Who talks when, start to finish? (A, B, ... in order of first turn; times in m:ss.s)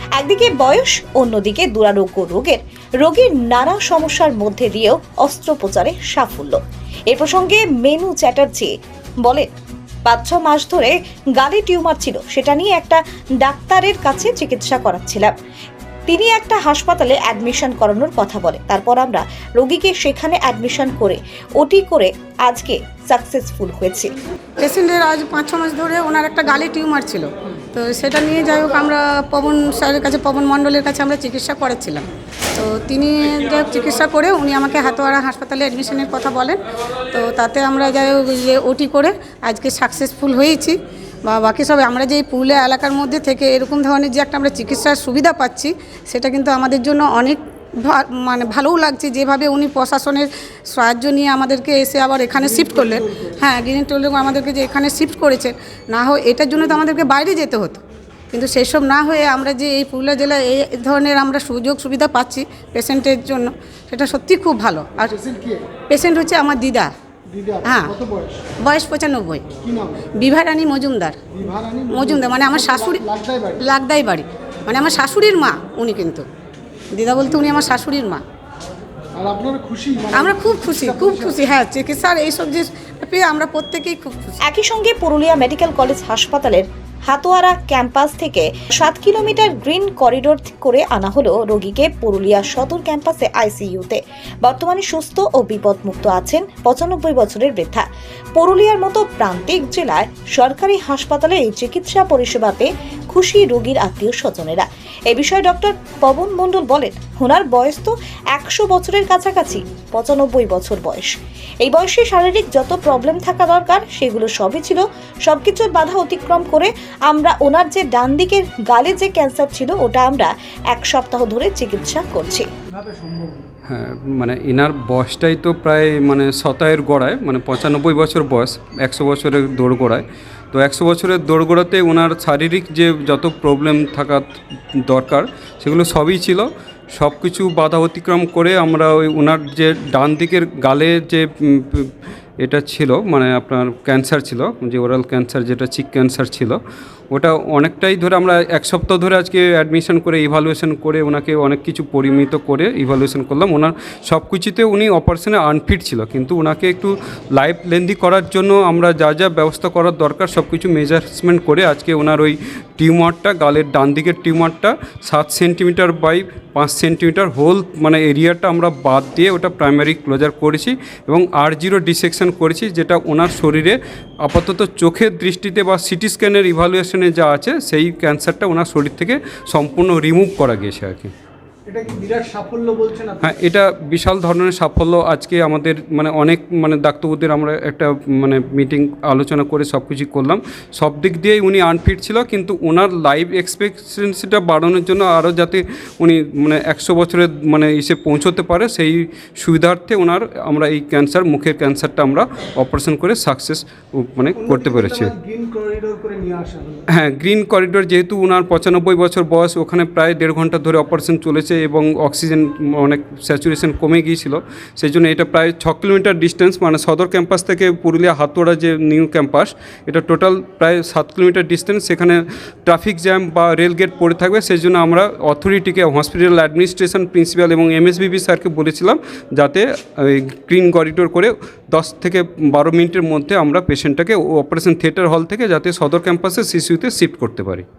0:00.2-0:06.6 A
0:07.1-0:08.7 A
0:10.0-0:15.3 A
0:16.1-0:24.1 A
0:24.6-1:05.2 B
0:52.5-0:53.4 C
1:05.1-1:05.7 C
1:05.9-1:06.9 B
1:07.3-1:08.4 C
1:07.6-1:08.0 B
1:08.6-1:09.5 B
1:09.6-1:10.1 C
1:10.2-1:11.2 B
1:11.3-1:13.6 C
1:11.9-1:13.0 B
1:13.6-1:16.3 B
1:16.9-1:18.2 B
1:19.2-1:21.4 C
1:20.1-1:24.4 B
1:24.4-1:37.8 A
1:38.4-1:51.1 A
1:51.6-2:02.5 A
2:02.7-2:03.5 C
2:03.7-2:26.6 D
2:27.1-3:01.1 D
3:01.7-3:03.4 C
3:03.2-3:25.1 D
3:24.4-3:26.9 C
3:26.9-3:57.6 D